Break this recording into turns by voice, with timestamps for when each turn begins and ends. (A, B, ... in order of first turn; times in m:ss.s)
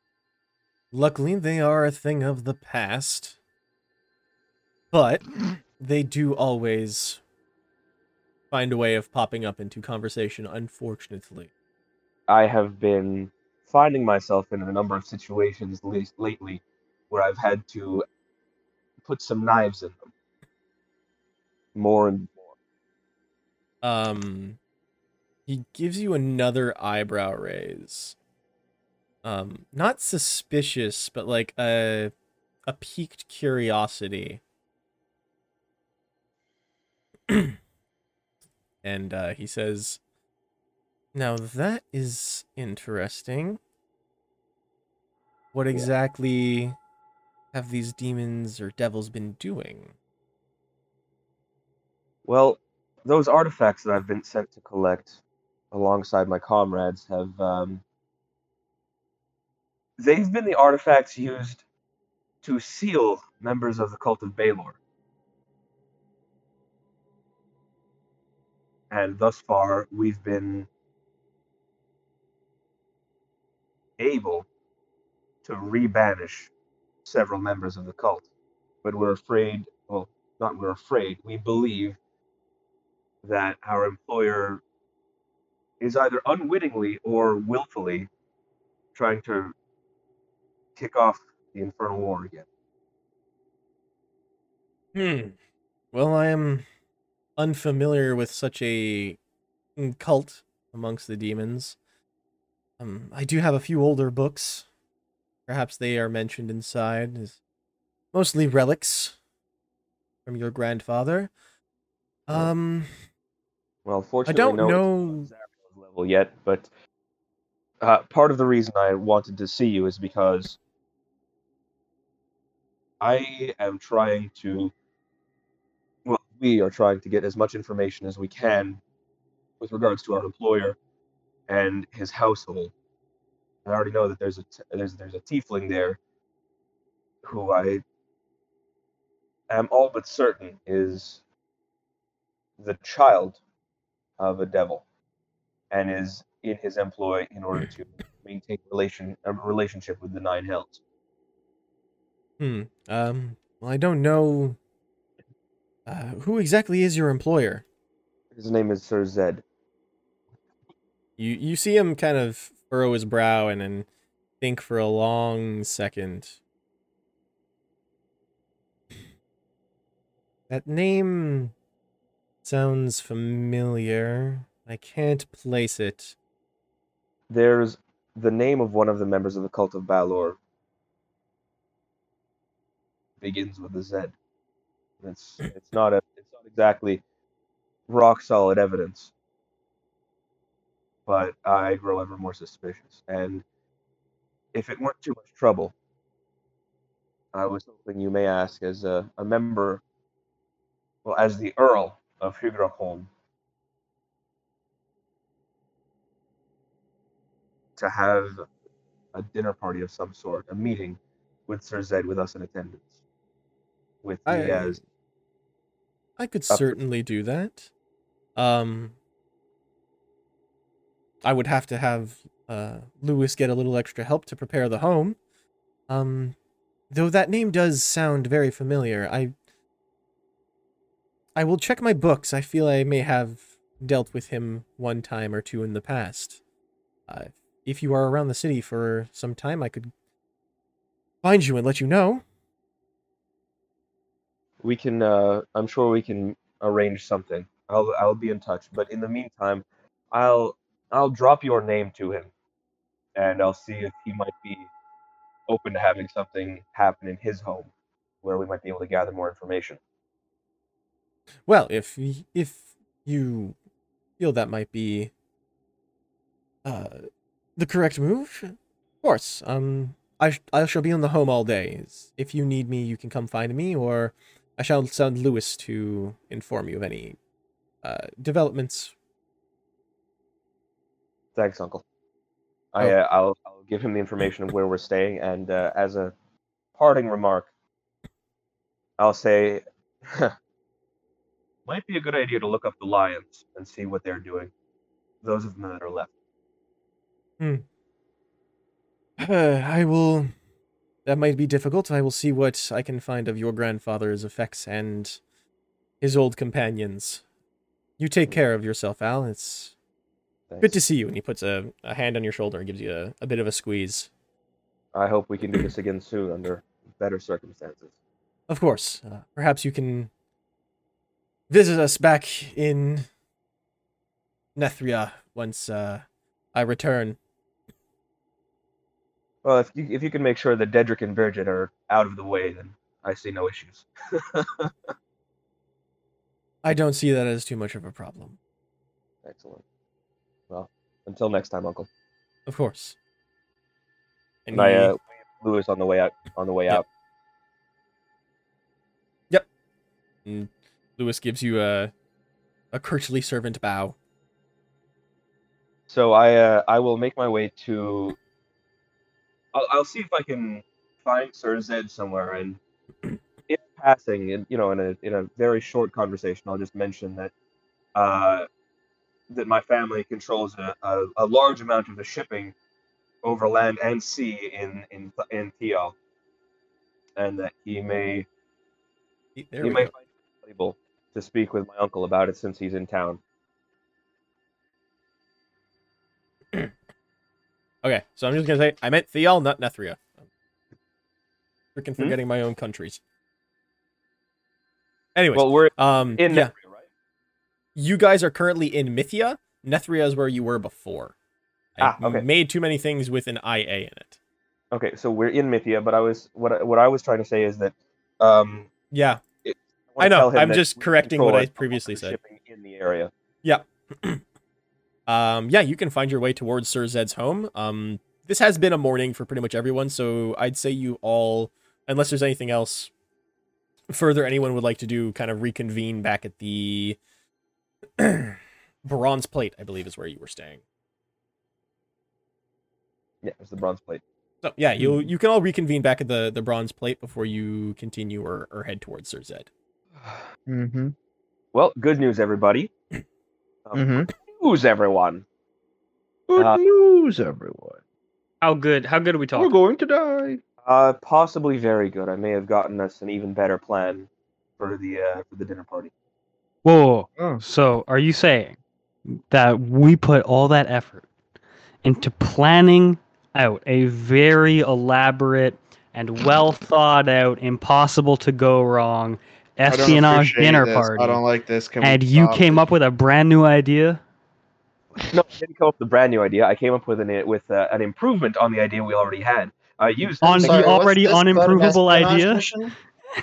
0:00.9-0:03.4 A
0:04.9-0:07.2 A
0:08.5-0:11.5 A
0:12.3-0:18.0 B
0:19.0-0:20.1 B
0:21.8-0:22.5 B
0:23.8-0:24.6 A
0:25.5-0:28.2 A
0:29.2-0:32.1 A
0:32.7-0:34.4 A
0:37.3-0:37.6 A
0:38.8-0:40.0 A
0:41.1-0:43.6 A
0:45.5-0:46.8 A
0:47.5-0:49.9 A
0:52.2-0:55.2 B
0:55.7-0:57.8 B
1:00.0-1:01.6 B
1:02.4-1:04.8 B
1:08.9-1:10.7 B
1:14.0-1:14.5 B
1:15.4-1:16.5 B
1:17.0-1:18.3 B
1:18.8-1:22.0 B
1:23.2-1:24.6 B
1:25.8-1:28.1 B
1:29.0-1:29.5 B
1:30.8-1:32.5 B
1:34.9-1:35.3 A
1:35.9-1:36.7 A
1:37.4-1:39.2 A
1:39.8-1:41.8 A
1:42.8-1:44.7 A
1:45.5-1:47.4 A
1:48.1-1:49.2 A
1:50.3-1:51.3 A
1:52.3-1:52.9 A
1:53.9-1:56.7 B
1:54.3-1:55.3 A
1:57.8-2:00.6 B
2:03.0-2:04.7 B
2:06.0-2:08.8 B
2:09.6-2:10.8 B
2:11.5-2:12.7 B
2:13.6-2:16.0 B
2:17.2-2:17.8 B
2:19.5-2:21.2 B
2:22.6-2:23.4 B
2:24.2-2:24.8 B
2:25.7-2:30.8 B
2:32.4-2:34.6 A
2:35.9-2:37.6 A
2:38.3-2:39.4 B
2:41.2-2:43.9 A
2:44.4-2:46.4 A
2:50.5-2:51.5 A
2:52.4-2:56.2 A
2:57.3-3:00.4 B
3:03.2-3:04.1 B
3:05.0-3:07.0 B
3:07.9-3:09.1 B
3:11.1-3:13.4 B
3:14.5-3:15.7 B
3:17.3-3:19.8 B
3:21.0-3:23.1 B
3:27.8-3:28.4 B
3:29.1-3:32.9 B
3:34.0-3:34.8 B
3:34.3-3:34.8 A
3:36.2-3:37.7 A
3:36.5-3:36.8 B
3:38.4-3:39.0 A
3:41.2-3:45.2 A
3:45.9-3:46.4 A
3:46.9-3:49.3 A
3:51.4-3:56.4 A
3:57.1-3:59.9 A
4:01.2-4:02.2 A
4:04.6-4:12.3 B
4:13.2-4:14.7 B
4:15.5-4:17.7 B
4:18.2-4:19.8 B
4:21.5-4:23.6 A
4:24.2-4:25.1 A
4:26.6-4:27.1 A
4:27.6-4:37.2 A
4:37.8-4:38.9 A
4:41.4-4:41.8 B
4:42.7-4:46.1 B
4:46.8-4:47.5 B
4:49.0-4:50.3 B
4:51.7-4:54.5 B
4:55.2-4:56.1 B
4:57.4-4:57.6 A
4:59.2-5:00.3 A
5:01.0-5:05.2 A
5:06.0-5:07.2 A
5:08.0-5:09.7 A
5:10.5-5:10.8 B
5:10.6-5:14.1 A
5:14.9-5:17.9 B
5:18.5-5:20.1 A
5:21.5-5:23.1 A
5:24.6-5:27.2 A
5:29.4-5:34.7 B
5:36.6-5:38.4 A
5:39.2-5:39.6 B
5:40.5-5:41.9 B
5:42.5-5:43.0 A
5:44.5-5:44.9 A
5:44.5-5:46.8 B
5:50.2-5:51.9 A
5:52.7-5:54.0 A
5:55.9-5:58.2 B
5:59.5-6:02.6 B
6:03.5-6:07.3 B
6:08.0-6:08.5 B
6:09.3-6:12.5 B
6:13.2-6:16.0 B
6:17.2-6:18.3 B
6:19.4-6:19.9 A
6:19.6-6:23.2 B
6:27.8-6:30.1 A
6:31.8-6:33.0 A
6:35.2-6:36.5 A
6:35.4-6:36.9 B
6:37.8-6:41.2 A
6:41.8-6:44.2 A
6:41.8-6:42.3 B
6:44.7-6:48.7 B
6:48.9-6:49.2 A
6:49.4-6:53.1 B
6:50.0-6:52.2 A
6:53.4-6:54.2 A
6:55.1-7:02.9 A
7:03.9-7:07.0 A
7:08.0-7:10.6 A
7:13.2-7:14.0 B
7:14.4-7:19.5 A
7:14.8-7:15.1 C
7:20.5-7:20.9 C
7:21.5-7:22.7 B
7:23.7-7:25.2 B
7:23.8-7:24.1 C
7:26.3-7:27.8 C
7:28.4-7:29.6 D
7:29.4-7:30.4 C
7:30.6-7:35.9 B
7:36.6-7:38.6 D
7:37.2-7:37.4 C
7:39.1-7:41.0 D
7:41.8-7:51.2 D
7:49.7-7:52.6 C
7:51.8-7:54.0 D
7:55.1-8:00.7 B
8:00.2-8:02.4 D
8:00.4-8:02.8 E